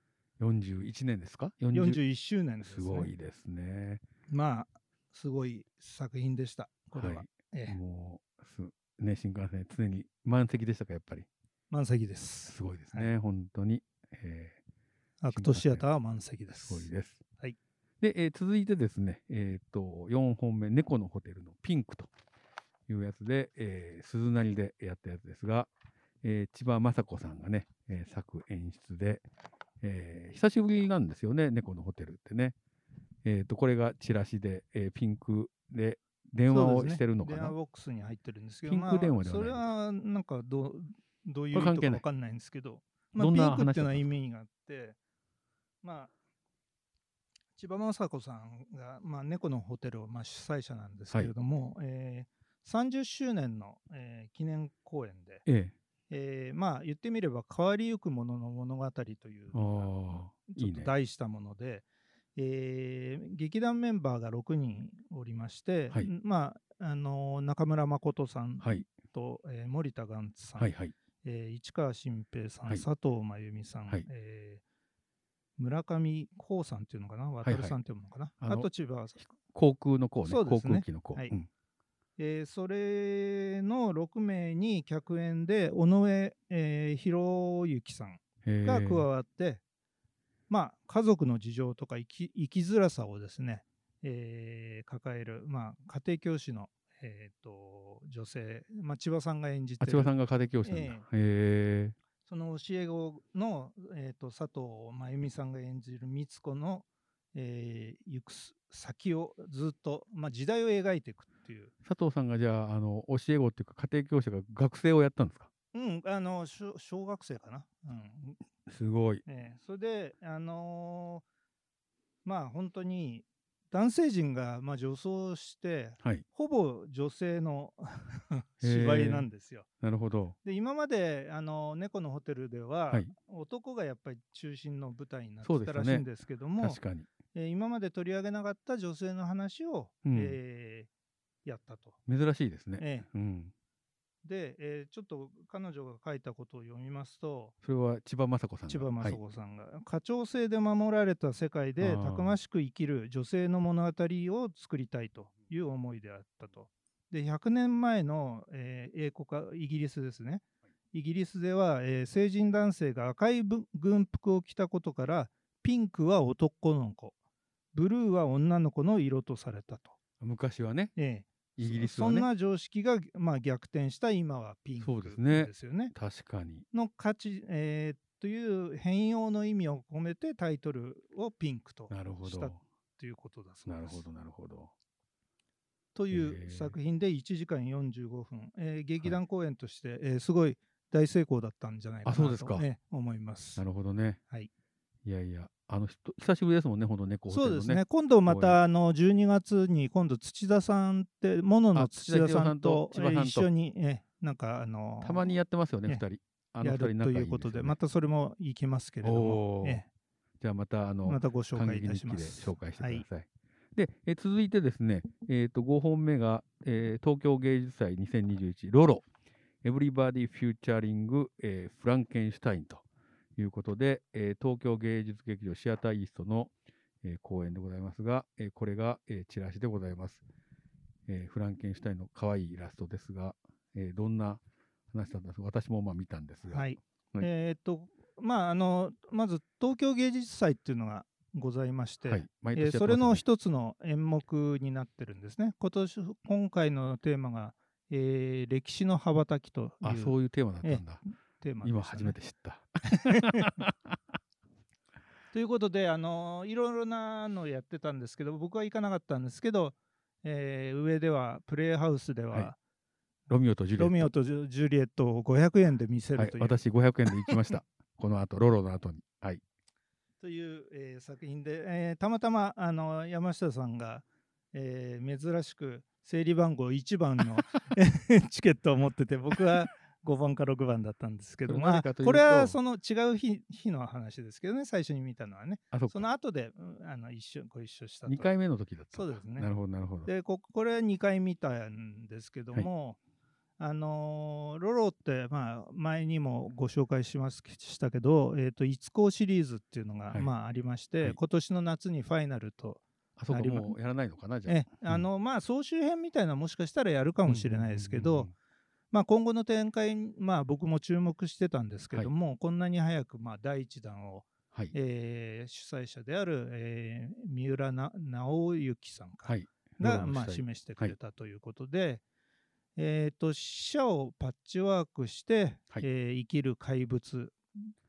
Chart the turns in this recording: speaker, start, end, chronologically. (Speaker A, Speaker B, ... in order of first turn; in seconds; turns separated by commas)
Speaker A: 0.4-2.0, Speaker B: 1.7-3.1, Speaker A: 2.6-4.0, Speaker B: 4.3-7.8, Speaker A: 6.9-11.3, Speaker B: 11.7-13.1, Speaker A: 12.5-14.6, Speaker B: 15.2-16.9, Speaker A: 15.3-15.8, Speaker A: 16.6-17.2, Speaker A: 18.0-22.1, Speaker A: 22.9-25.7, Speaker A: 26.2-29.2, Speaker A: 29.8-32.5, Speaker A: 33.2-37.5, Speaker B: 36.5-45.0, Speaker A: 38.6-39.7, Speaker A: 41.5-42.0, Speaker A: 43.1-44.0, Speaker B: 45.8-46.1, Speaker B: 47.5-55.5, Speaker A: 55.5-55.7, Speaker B: 56.1-59.9, Speaker A: 59.5-60.9, Speaker B: 60.5-61.8, Speaker B: 62.4-70.7, Speaker A: 70.6-70.9, Speaker B: 71.2-74.6, Speaker B: 75.6-79.2, Speaker A: 77.4-77.8, Speaker A: 78.4-78.7, Speaker A: 79.2-81.5, Speaker B: 80.2-81.3, Speaker B: 82.2-89.6, Speaker A: 88.4-89.1, Speaker B: 90.5-100.1, Speaker A: 99.8-102.0, Speaker B: 100.6-101.0, Speaker B: 102.2-111.7, Speaker A: 111.8-115.5, Speaker B: 115.7-118.4, Speaker A: 118.7-119.2, Speaker B: 119.2-121.2, Speaker B: 122.2-129.7, Speaker A: 128.6-129.3, Speaker A: 129.8-130.3, Speaker B: 130.4-136.8, Speaker A: 135.4-136.1, Speaker A: 136.6-137.1, Speaker B: 137.3-140.9, Speaker A: 140.0-140.4, Speaker B: 141.4-142.0, Speaker A: 142.1-143.5, Speaker B: 142.8-143.1, Speaker B: 144.2-147.5, Speaker A: 147.6-149.2, Speaker B: 148.7-167.1, Speaker A: 151.8-152.3, Speaker B: 167.7-169.9, Speaker A: 170.2-170.9, Speaker B: 170.9-175.9, Speaker A: 171.6-172.3, Speaker A: 174.8-176.7, Speaker B: 176.7-184.0, Speaker A: 181.9-182.6, Speaker A: 183.7-184.7, Speaker B: 185.9-193.6, Speaker A: 186.1-186.8, Speaker A: 192.0-192.7, Speaker A: 193.6-194.2, Speaker A: 195.0-198.6, Speaker B: 197.3-206.0, Speaker A: 201.7-203.5, Speaker A: 205.0-207.8, Speaker B: 206.6-209.8, Speaker A: 209.0-209.8, Speaker A: 210.4-219.0, Speaker B: 211.0-213.0, Speaker A: 219.6-222.8, Speaker A: 223.4-230.2, Speaker A: 231.1-237.3, Speaker B: 236.5-252.2, Speaker A: 242.1-243.2, Speaker A: 249.8-251.0, Speaker A: 251.6-253.9, Speaker B: 252.9-253.5, Speaker B: 255.3-262.6, Speaker A: 263.3-264.1, Speaker B: 263.8-266.6, Speaker A: 266.1-269.4, Speaker B: 270.2-288.3, Speaker A: 281.4-282.6, Speaker A: 285.7-286.0, Speaker A: 288.1-290.1, Speaker B: 288.9-289.5, Speaker B: 290.1-293.0, Speaker B: 293.6-303.8, Speaker A: 303.2-305.0, Speaker B: 304.4-308.3, Speaker A: 307.2-308.3, Speaker B: 308.9-322.0, Speaker A: 319.2-320.9, Speaker B: 322.8-327.7